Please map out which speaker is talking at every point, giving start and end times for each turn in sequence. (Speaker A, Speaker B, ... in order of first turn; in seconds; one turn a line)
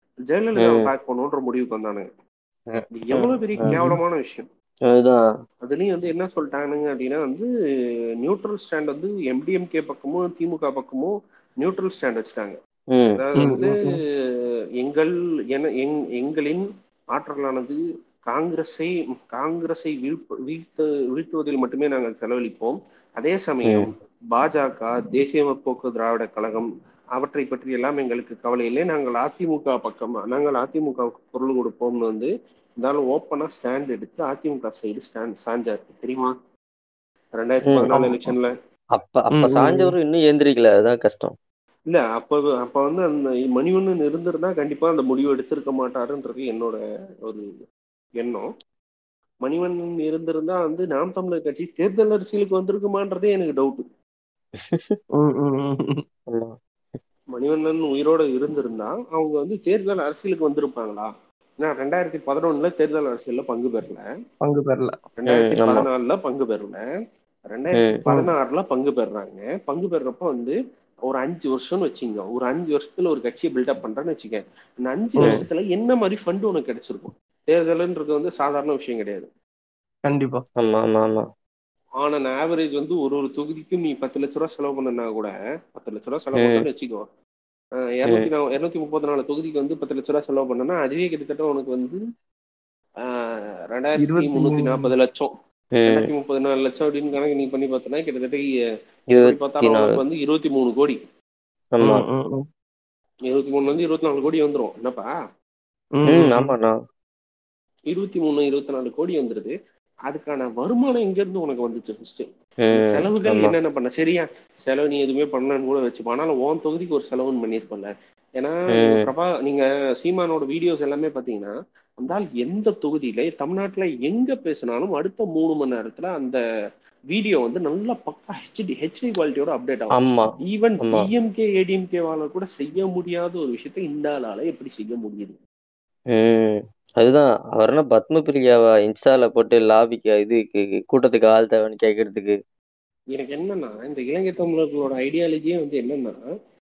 Speaker A: 0.3-2.1
Speaker B: 0.6-0.9
Speaker B: 2.7-3.3
Speaker A: 3.0-4.5
Speaker C: 3.7-4.0
Speaker B: 4.9-5.2
Speaker A: 5.7-7.5
Speaker A: 8.2-12.6
Speaker A: 13.2-13.8
Speaker C: 13.4-14.0
Speaker A: 14.8-36.3
Speaker A: 37.4-38.5
Speaker C: 37.9-38.3
Speaker B: 39.0-41.4
Speaker C: 39.4-39.9
Speaker A: 41.9-47.5
Speaker A: 48.2-48.5
Speaker A: 49.5-53.8
Speaker B: 54.6-55.0
Speaker C: 55.2-56.0
Speaker A: 57.4-64.0
Speaker C: 64.4-64.9
Speaker A: 65.2-66.8
Speaker B: 65.3-65.8
Speaker A: 67.5-79.3
Speaker C: 80.1-80.4
Speaker B: 80.6-81.3
Speaker A: 82.0-87.0
Speaker B: 86.4-86.6
Speaker A: 88.0-92.0
Speaker A: 93.7-95.3
Speaker C: 94.0-94.9
Speaker B: 95.8-96.1
Speaker A: 95.9-98.4
Speaker B: 99.1-100.0
Speaker A: 99.2-101.0
Speaker B: 101.8-102.0
Speaker C: 101.8-102.5
Speaker A: 103.3-105.1
Speaker C: 106.0-106.5
Speaker B: 106.1-106.8
Speaker A: 107.9-109.5
Speaker A: 110.1-126.4
Speaker B: 112.7-113.5
Speaker B: 118.7-119.1
Speaker A: 127.1-135.4
Speaker B: 130.0-130.3
Speaker B: 136.1-142.4
Speaker A: 143.1-146.2